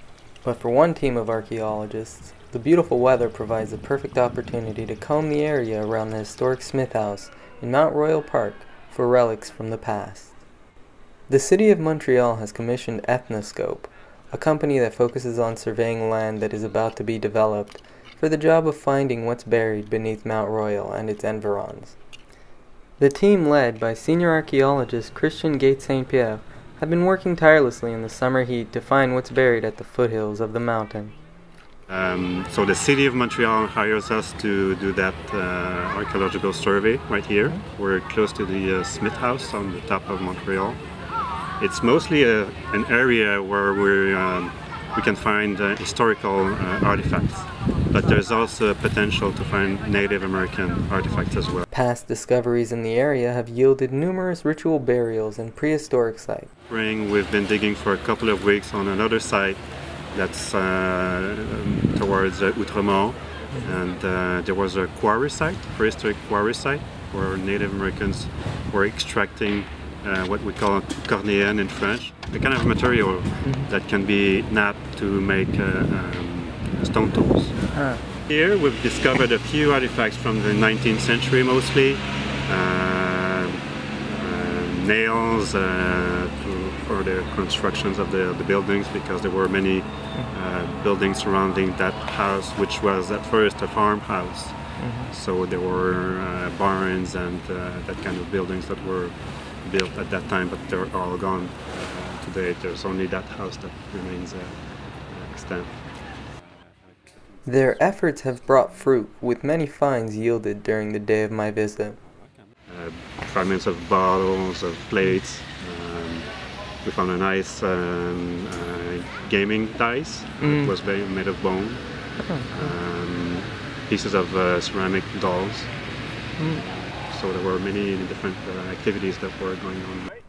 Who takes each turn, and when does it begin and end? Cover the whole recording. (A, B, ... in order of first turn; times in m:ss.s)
0:00.4-0:10.4 A
0:11.3-0:22.0 A
0:23.0-0:31.1 A
0:31.9-0:40.8 B
0:41.6-0:51.7 B
0:51.7-0:56.5 A
0:56.7-1:17.6 B
1:13.4-1:13.7 A
1:17.7-1:18.0 A
1:18.3-1:46.2 B
1:34.8-1:35.1 A
1:47.4-1:52.0 A
1:52.7-2:10.1 B
2:00.4-2:00.7 A
2:02.2-2:02.7 A
2:06.4-2:06.6 A